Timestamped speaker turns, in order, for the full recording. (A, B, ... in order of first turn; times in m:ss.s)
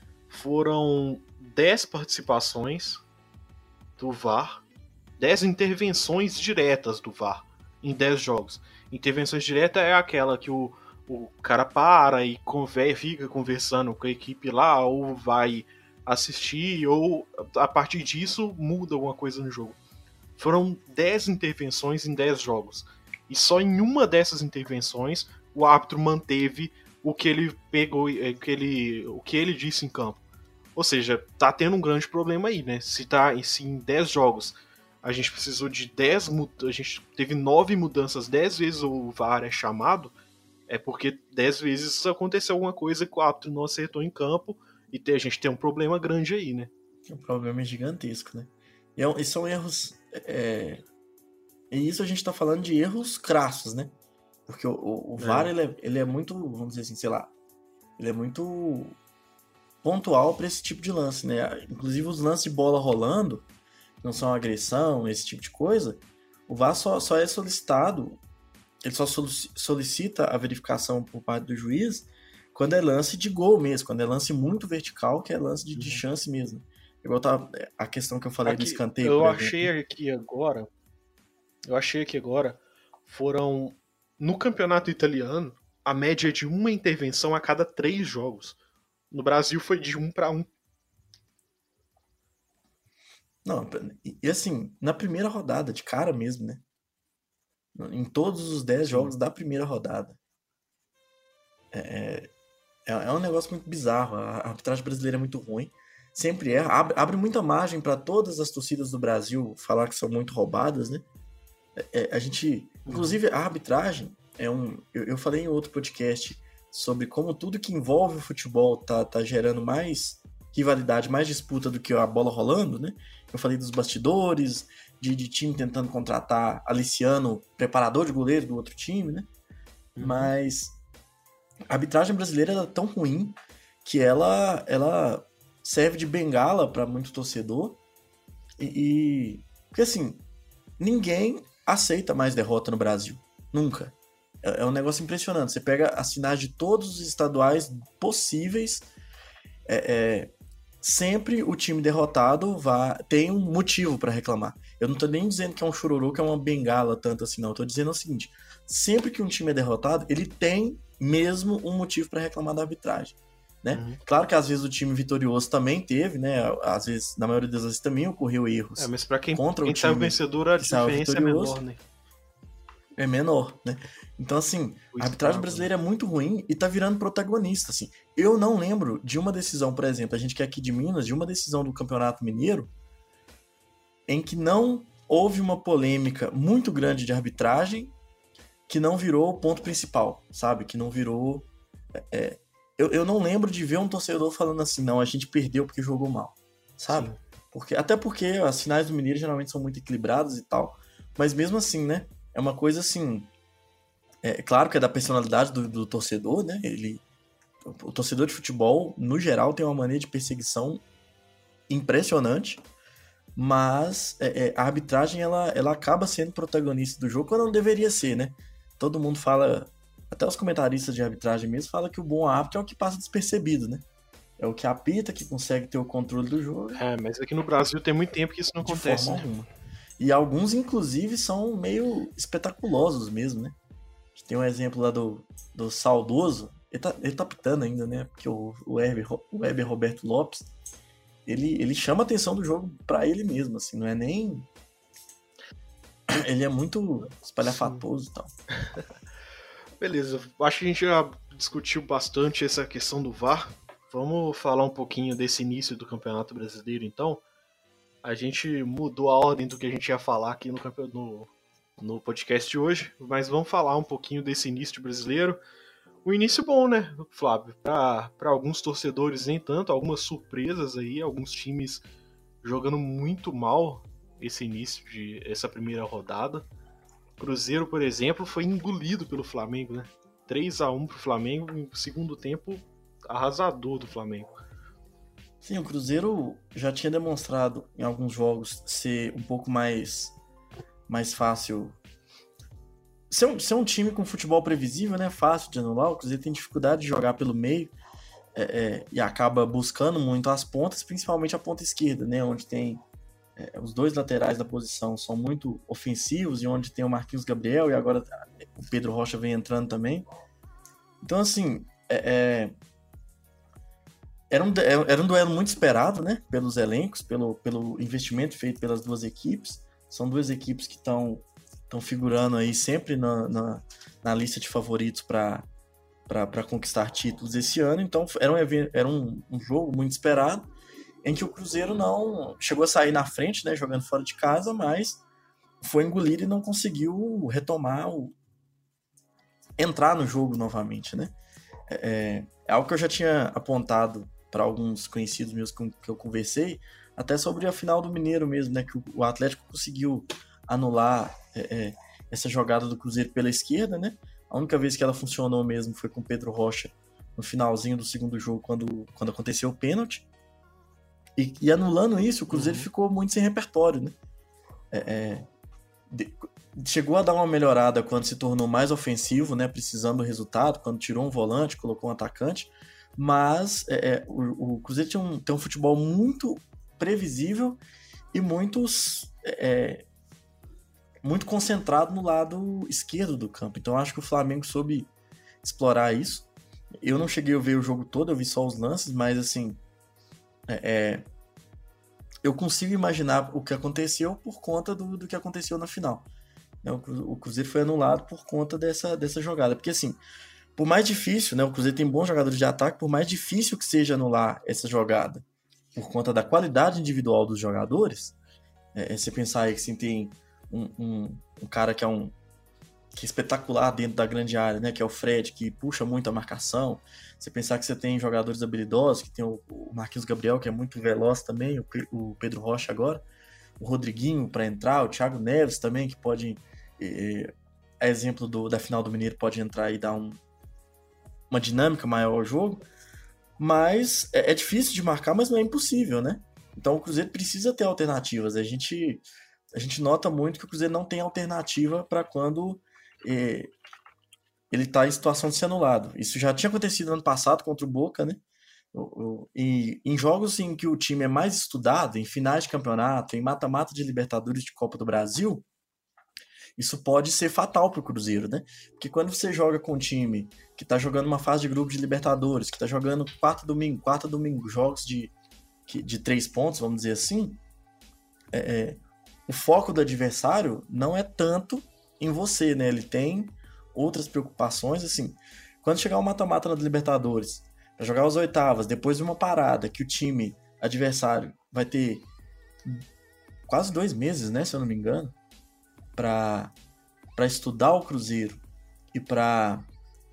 0:00.3-0:03.0 A
0:04.0-0:04.6 A
0:05.2-0:19.8 A
0:20.4-0:30.2 A
0:30.8-0:40.1 A
0:40.7-0:46.7 A
0:47.1-0:50.8 B
0:51.7-0:53.9 B
0:54.5-0:57.3 B
0:55.2-0:55.5 A
0:58.0-0:59.0 B
0:59.8-1:03.4 B
1:04.0-1:08.2 B
1:08.8-1:19.7 B
1:15.7-1:16.0 A
1:18.4-1:20.7 A
1:21.7-1:28.6 A
1:29.1-1:30.5 A
1:33.4-1:36.6 B
1:37.8-1:40.2 B
1:38.8-1:39.1 A
1:41.7-1:42.3 B
1:42.9-1:51.0 B
1:51.8-2:09.3 B
1:52.9-1:53.2 A
2:10.0-2:10.3 A
2:10.0-2:10.8 B
2:11.7-2:17.8 B
2:18.6-2:20.2 B
2:20.8-2:28.9 B
2:29.7-2:51.6 B
2:43.7-2:44.0 A
2:48.8-2:51.8 A
2:53.0-3:02.7 B
2:54.9-2:55.7 A
3:04.1-3:07.9 B
3:08.7-3:23.3 B
3:16.9-3:17.2 A
3:24.2-3:27.0 B
3:27.6-3:30.8 B
3:31.7-3:32.6 B
3:33.4-3:43.8 B
3:44.4-3:46.8 B
3:46.7-3:49.3 A
3:48.6-3:49.5 B
3:50.0-3:53.6 B
3:54.2-4:00.5 B
4:01.3-4:04.5 B
4:06.1-4:08.3 B
4:07.4-4:07.8 A
4:09.8-4:17.2 A
4:18.0-4:25.4 A
4:26.0-4:31.8 A
4:32.4-4:36.4 A
4:37.2-4:44.3 A
4:45.4-4:50.2 B
4:50.9-4:51.8 B
4:53.1-4:57.7 B
4:58.4-5:02.8 B
5:03.4-5:10.1 B
5:11.0-5:12.5 B
5:14.3-5:25.5 B
5:26.1-5:30.5 B
5:31.0-5:35.0 B
5:35.6-5:38.2 B
5:39.6-5:41.2 B
5:41.7-6:00.1 B
6:01.2-6:04.0 B
6:02.3-6:02.7 A
6:04.7-6:05.3 B
6:05.9-6:17.6 B
6:18.1-6:19.8 B
6:21.0-6:24.9 B
6:25.4-6:26.3 B
6:26.8-6:29.6 B
6:30.5-6:31.1 B
6:32.2-6:36.1 B
6:36.6-6:40.0 B
6:40.6-6:48.2 B
6:48.7-6:52.1 B
6:52.9-7:03.0 B
7:03.6-7:10.2 B
7:11.3-7:12.6 B
7:13.4-7:23.5 B
7:24.5-7:28.2 B
7:28.7-7:35.4 B
7:36.6-7:45.1 B
7:45.7-7:47.4 B
7:48.3-8:02.1 B
8:03.5-8:05.2 B
8:06.0-8:06.5 B
8:07.2-8:08.4 B
8:08.9-8:09.7 B